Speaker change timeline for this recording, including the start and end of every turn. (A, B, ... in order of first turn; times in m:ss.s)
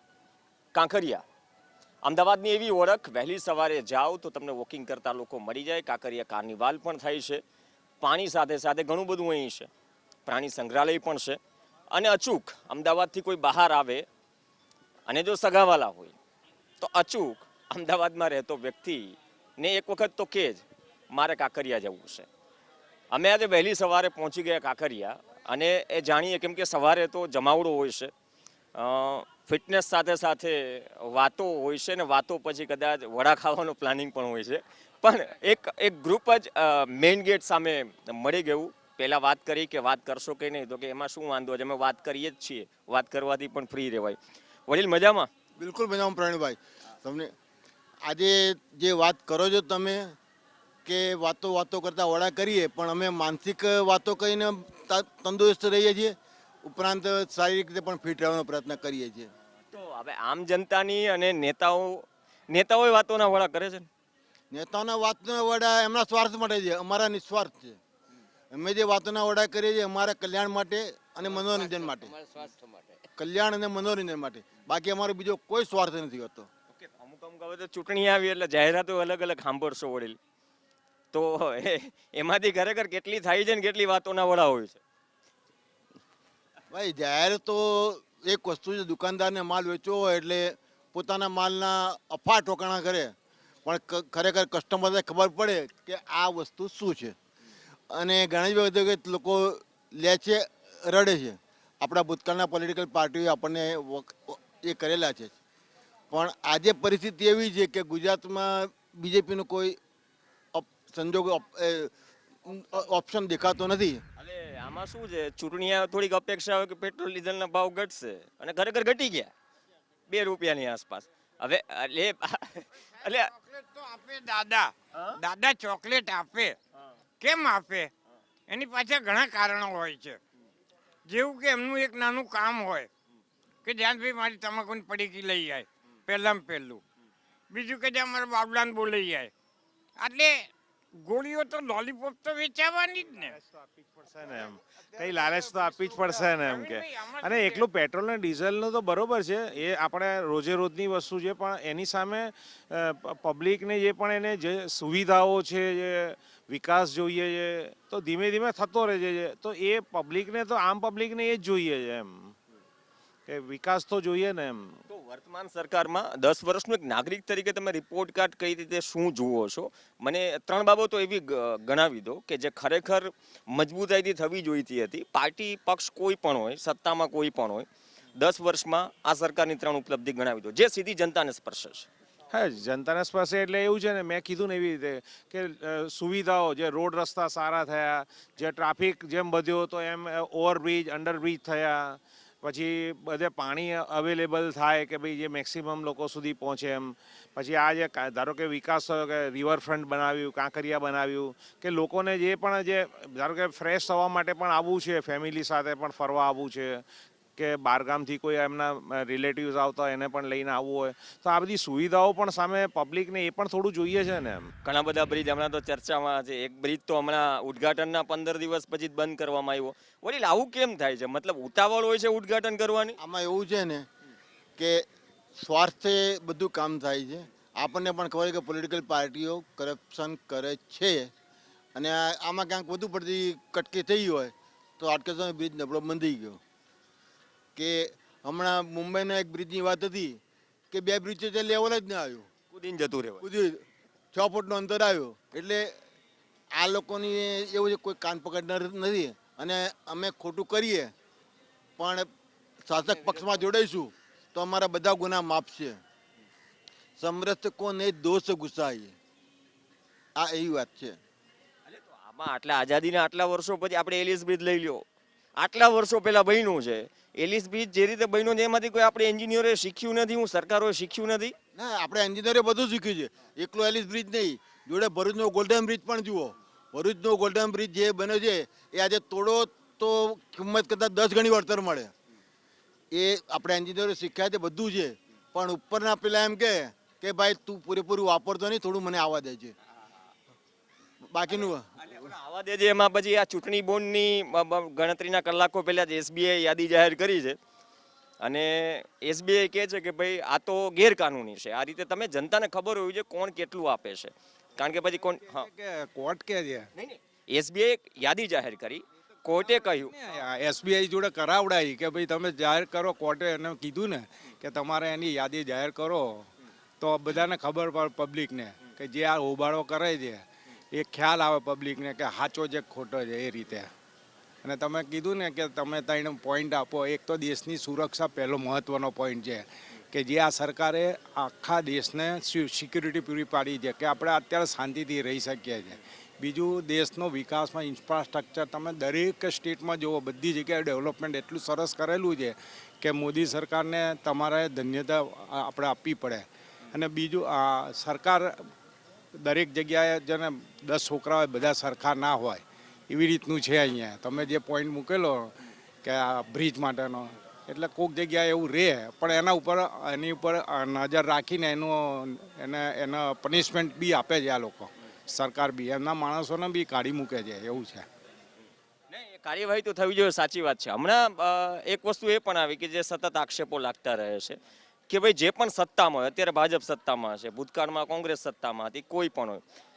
0:00.7-0:01.2 A
0:02.0-0:07.4 A
0:08.0-0:09.7 A
0:10.2-0:11.4 A
0:11.9-0:14.0 A
0:15.1-0:16.1 A
0:16.8-0:22.3 A
0:23.1-0:28.1 A
0:28.7-0:45.3 A
0:45.6-0:47.3 B
0:48.0-0:50.2 B
0:50.8-0:59.3 B
0:59.7-1:03.9 A
1:04.5-1:07.8 B
1:08.5-1:12.2 B
1:13.2-1:16.5 B
1:16.7-1:20.2 A
1:21.1-1:24.8 A
1:26.7-1:33.1 B
1:33.6-1:37.2 B
1:37.9-1:45.4 B
1:46.1-1:49.8 B
1:50.5-1:51.9 B
1:52.4-1:54.0 B
1:54.2-1:59.3 A
2:00.1-2:03.3 A
2:03.0-2:06.6 C
2:04.9-2:05.2 A
2:07.2-2:07.9 C
2:08.5-2:10.2 C
2:11.1-2:12.9 C
2:13.6-2:16.8 C
2:17.5-2:19.3 C
2:20.0-2:20.4 C
2:21.0-2:23.4 C
2:24.0-2:42.3 D
2:25.0-2:27.6 C
2:43.3-2:44.8 D
2:44.9-3:01.9 A
3:02.3-3:26.8 D
3:27.4-3:34.5 D
3:34.6-3:43.0 A
3:43.0-3:43.9 B
3:44.6-3:51.1 B
3:51.7-3:56.4 B
3:57.6-4:00.2 B
4:00.7-4:02.3 B
4:02.5-4:03.2 A
4:03.2-4:05.8 B
4:06.5-4:10.9 B
4:11.8-4:12.1 B
4:12.6-4:15.8 B
4:17.0-4:18.9 B
4:20.2-4:21.0 B
4:21.6-4:24.8 A
4:25.4-4:31.4 A
4:31.5-4:41.9 B
4:42.9-4:49.5 B
4:51.1-4:51.6 B
4:51.3-4:57.4 A
4:58.2-5:05.5 A
5:05.3-5:06.7 E
5:06.7-5:09.9 A
5:09.7-5:16.3 E
5:16.8-5:23.7 E
5:24.4-5:48.5 E
5:49.2-6:07.9 E
6:08.9-6:19.4 A